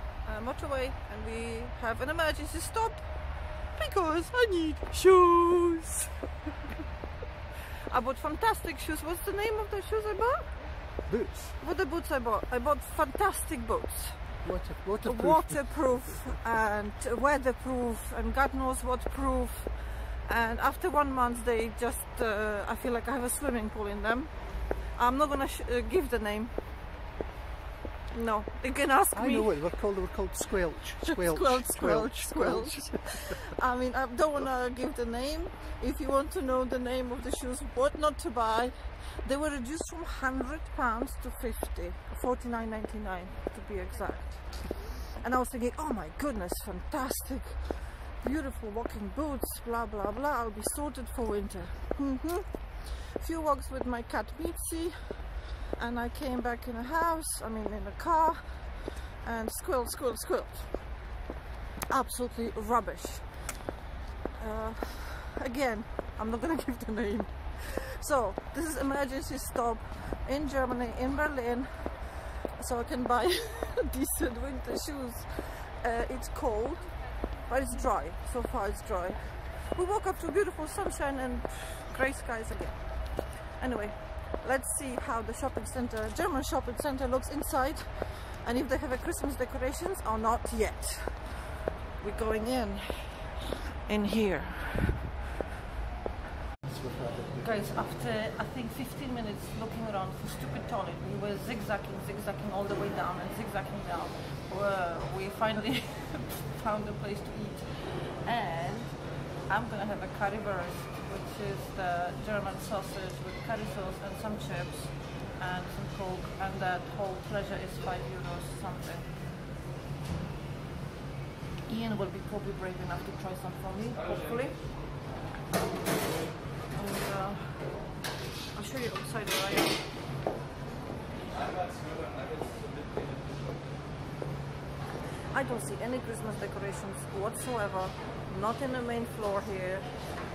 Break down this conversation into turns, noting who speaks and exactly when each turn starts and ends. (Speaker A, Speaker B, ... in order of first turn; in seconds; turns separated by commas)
Speaker A: 0.2-6.1, Speaker A: 7.9-10.6, Speaker B: 11.1-11.6, Speaker A: 11.6-14.3, Speaker B: 14.4-15.9, Speaker A: 15.0-26.5, Speaker A: 28.1-29.6, Speaker B: 29.1-33.2, Speaker A: 31.0-61.0, Speaker A: 61.9-63.6, Speaker A: 64.4-95.2, Speaker B: 96.6-97.8, Speaker A: 97.4-119.1, Speaker A: 121.7-124.7, Speaker A: 126.7-129.9, Speaker A: 135.3-140.1